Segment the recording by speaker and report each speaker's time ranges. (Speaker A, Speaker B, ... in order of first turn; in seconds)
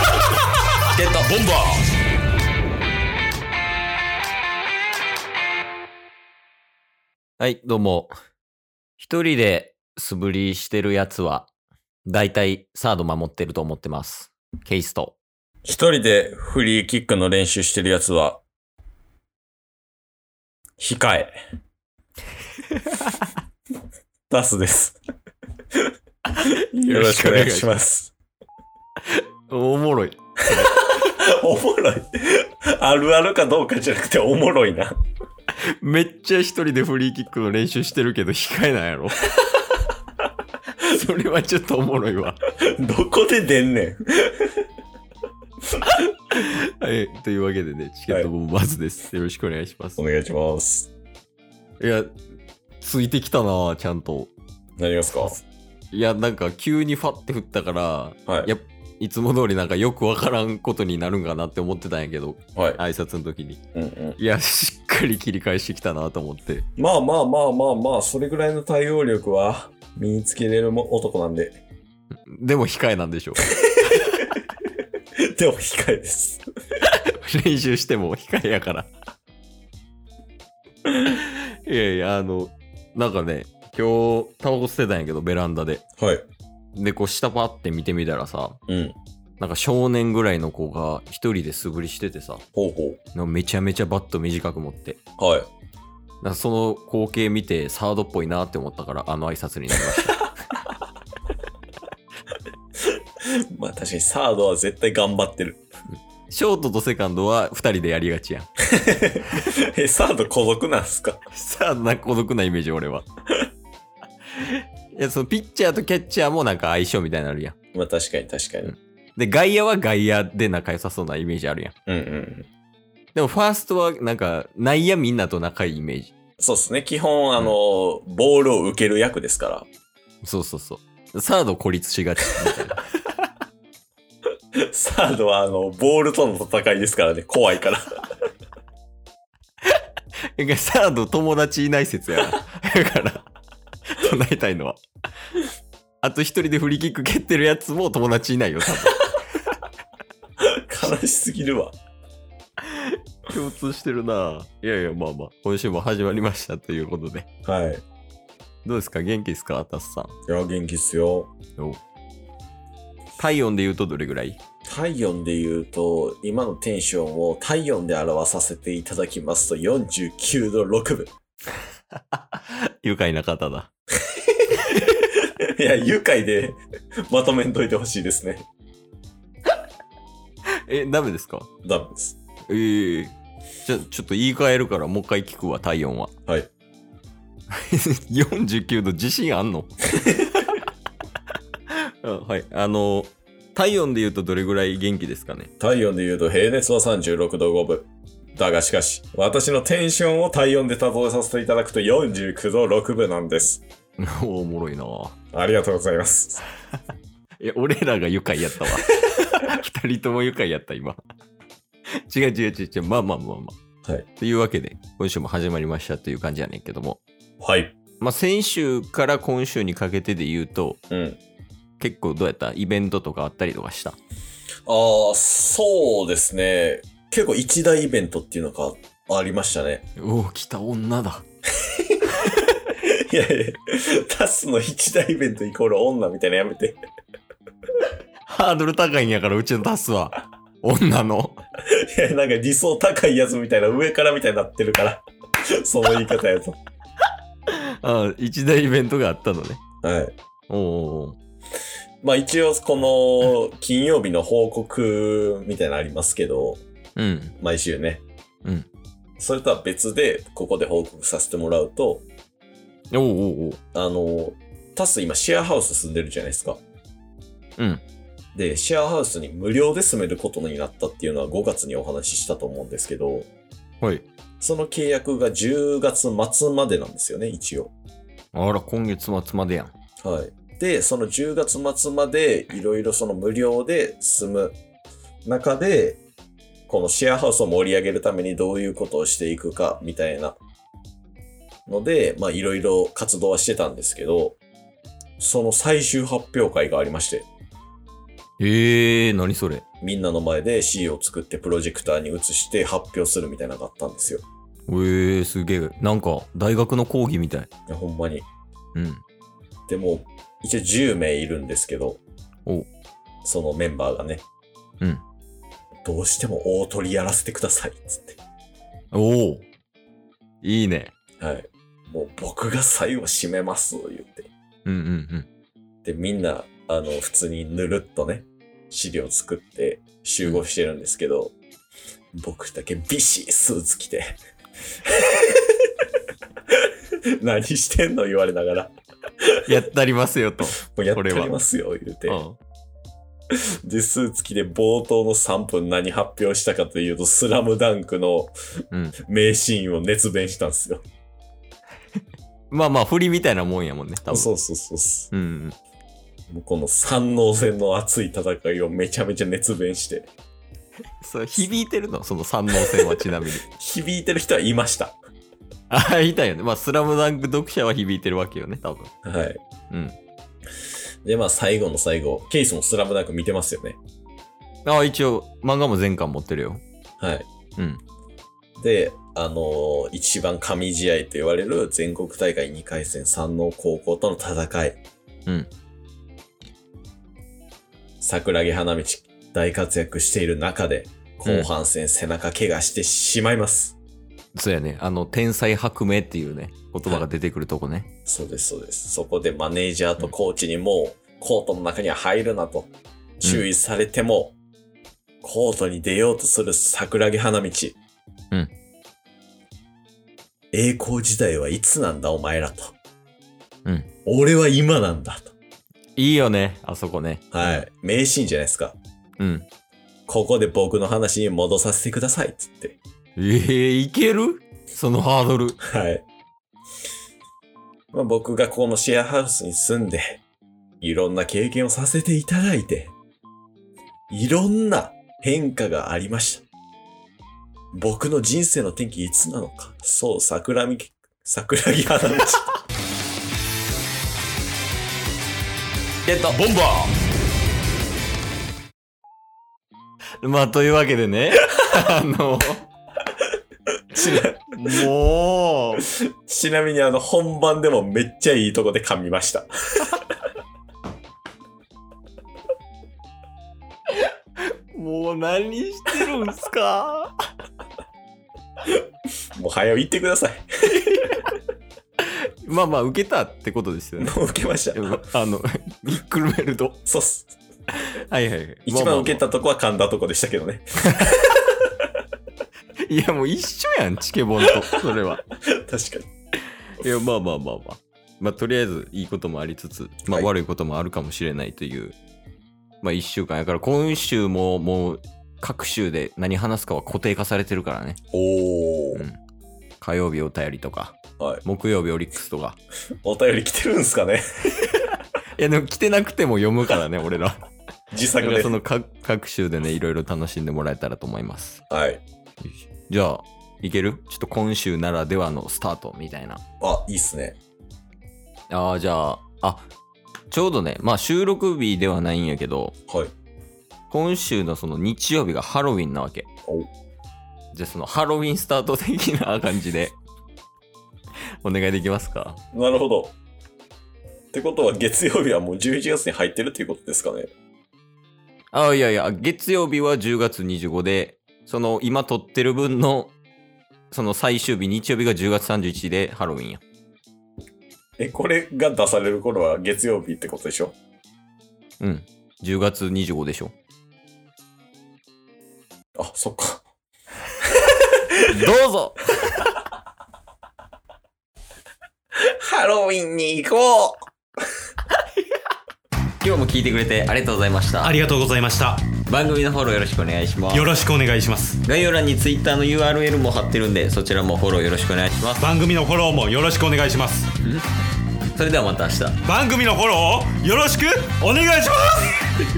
Speaker A: 0.9-1.3, 7.4-8.1, 9.0-11.5, 12.1-15.2, 26.4-27.7, 29.1-30.9, 35.8-39.2, 40.8-42.4, 45.9-50.0, 51.8-52.2, 52.8-54.3, 55.9-63.6, 64.2-66.7, 72.3-74.2, 76.8-78.9, 80.9-85.8, 86.8-88.6, 89.4-92.4, 93.1-95.0, 96.2-100.3, 106.3-108.5, 111.3-113.0, 114.4-117.6, 118.6-121.7, 123.1-126.1, 130.2-132.8, 140.4-143.2, 143.9-144.8, 146.0-149.0, 152.7-157.2, 158.6-160.1, 163.2-164.4, 172.1-173.7, 180.7-181.5, 182.5-186.1, 187.5-190.6, 191.7-195.5, 204.0-205.2, 207.4-211.0, 212.1-213.6, 214.2-217.0, 218.0-220.8, 221.8-224.0, 230.0-231.2, 238.3-241.4, 247.8-249.6, 250.5-251.2, 257.0-257.4, 262.9-263.6, 267.6-267.8, 273.8-274.1, 278.3-279.7, 298.4-299.6, 304.7-307.5, 308.8-309.0, 318.9-319.5, 320.4-320.9, 324.7-325.3, 339.5-341.3, 342.1-342.4, 352.5-354.3, 355.1-355.6, 361.0-363.4, 365.7-368.9, 369.7-370.0, 374.6-376.6, 394.3-397.9, 416.0-417.6, 419.2-419.5, 423.2-425.6, 446.1-446.4, 450.2-452.6, 454.0-455.9, 464.7-467.1, 470.8-471.2, 472.4-474.2, 474.7-476.8, 478.1-479.2, 482.9-485.2, 486.8-492.0, 492.8-498.0, 499.8-502.6, 505.4-507.4, 508.2-511.6, 512.4-516.4, 518.5-519.7, 520.3-522.8, 523.9-526.3, 527.5-530.0, 531.4-532.4, 538.5-543.1, 543.9-546.6, 551.8-553.5, 558.3-559.0, 566.2-568.0, 569.0-570.7, 571.6-575.5, 578.3-579.2
Speaker B: 1.2-1.9, 446.3-446.9, 567.8-568.9, 570.5-571.6, 575.4-577.3, 579.2-582.4
Speaker C: 15.6-18.4, 20.8-21.4, 24.3-25.0, 26.7-28.1, 30.6-34.9, 42.6-44.6, 50.0-50.9, 54.8-55.4, 63.8-64.2, 66.8-71.6, 75.3-76.4, 86.0-86.2, 88.7-89.0, 92.6-93.0, 95.2-95.5, 103.5-105.6, 108.7-111.2, 117.7-118.7, 121.9-122.5, 126.4-129.7, 134.7-137.9, 150.6-151.8, 157.4-157.8, 160.3-161.3, 164.7-171.1, 174.6-178.4, 181.6-182.2, 195.6-203.6, 205.3-206.4, 217.4-217.8, 220.9-221.2, 224.7-229.8, 232.7-236.8, 241.8-245.1, 245.6-246.6, 249.8-250.2, 252.0-256.6, 257.4-258.0, 259.2-262.1, 263.7-266.6, 268.4-273.3, 274.4-277.7, 280.0-284.6, 285.2-286.0, 286.7-290.4, 291.7-294.4, 295.2-297.3, 299.8-304.2, 307.7-308.3, 309.7-312.0, 313.2-314.2, 315.8-318.2, 321.2-324.3, 325.9-331.4, 332.1-334.2, 334.8-335.6, 337.2-338.8, 340.7-342.2, 343.3-348.3, 349.0-350.8, 354.1-355.1, 356.3-360.1, 363.5-365.0, 369.0-369.4, 371.1-373.8, 377.0-377.3, 378.6-384.8, 388.0-393.8, 398.1-404.4, 405.2-407.8, 410.5-412.8, 414.1-415.3, 417.3-418.8, 420.1-422.8, 425.6-426.0, 427.9-430.2, 430.8-432.9, 434.1-436.4, 437.7-442.5, 453.9-454.9, 456.2-460.1, 469.4-471.2, 474.0-475.0, 476.9-477.4, 478.7-481.2, 484.5-484.9, 485.4-486.1, 498.1-499.1, 501.2-501.4, 503.0-504.7, 507.9-508.6, 511.7-512.0, 516.6-517.4, 532.5-533.1, 534.3-537.3, 548.0-550.8, 556.0-556.6, 562.3-564.1